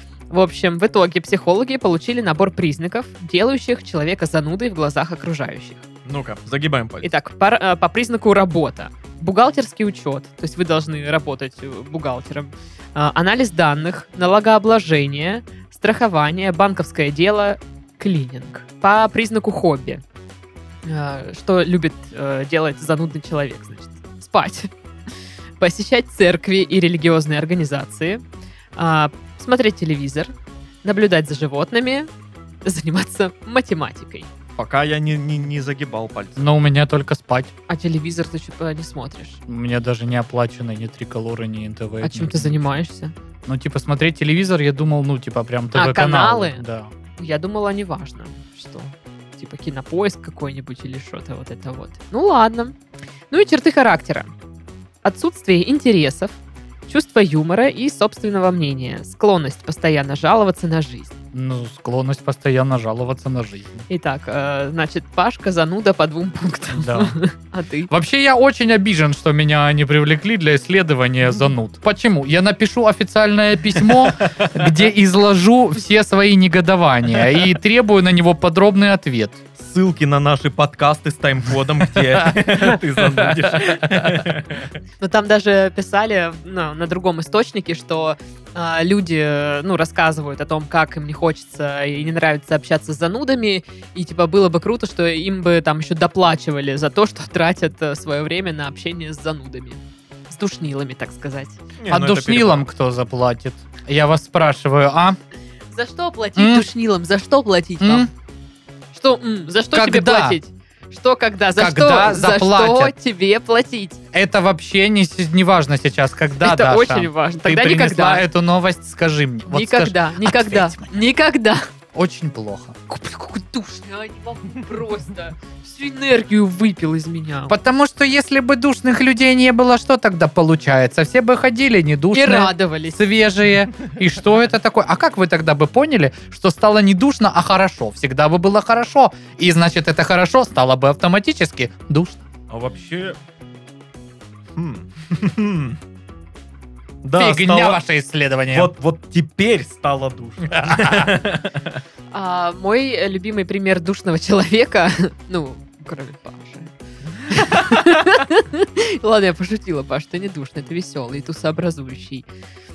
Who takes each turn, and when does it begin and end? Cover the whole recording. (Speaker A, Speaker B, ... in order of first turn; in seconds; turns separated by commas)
Speaker A: 0.3-5.8, Speaker B: 6.1-7.1, Speaker A: 7.0-20.0, Speaker A: 20.9-24.7, Speaker A: 25.6-28.2, Speaker A: 28.8-30.3, Speaker A: 30.8-32.1, Speaker A: 32.6-34.3, Speaker B: 34.6-36.4, Speaker C: 36.4-37.5, Speaker A: 37.7-39.4, Speaker C: 39.5-42.8, Speaker A: 42.0-43.1, Speaker C: 43.5-46.9, Speaker A: 45.8-46.6, Speaker A: 47.2-52.8, Speaker A: 53.3-54.3, Speaker A: 55.0-61.1, Speaker C: 61.3-63.9, Speaker A: 63.9-67.9, Speaker C: 66.7-67.2, Speaker C: 67.9-79.4, Speaker B: 73.8-74.5, Speaker B: 79.6-84.7, Speaker C: 82.0-84.3, Speaker A: 85.0-101.6, Speaker B: 101.8-102.6, Speaker C: 101.9-105.2, Speaker A: 105.7-108.1, Speaker C: 106.4-106.7, Speaker C: 107.8-108.1, Speaker A: 108.9-114.0, Speaker C: 109.7-110.4, Speaker C: 111.6-112.9, Speaker C: 114.1-120.9, Speaker A: 116.4-118.3, Speaker A: 119.5-121.7, Speaker C: 121.9-122.8, Speaker A: 122.9-127.6, Speaker C: 127.5-142.3, Speaker A: 132.1-133.0, Speaker B: 142.5-143.2, Speaker B: 144.6-145.8, Speaker B: 147.0-147.8, Speaker C: 147.2-148.7, Speaker B: 148.5-151.8, Speaker C: 150.6-151.1, Speaker A: 152.1-156.7, Speaker A: 157.3-162.3, Speaker B: 157.3-157.7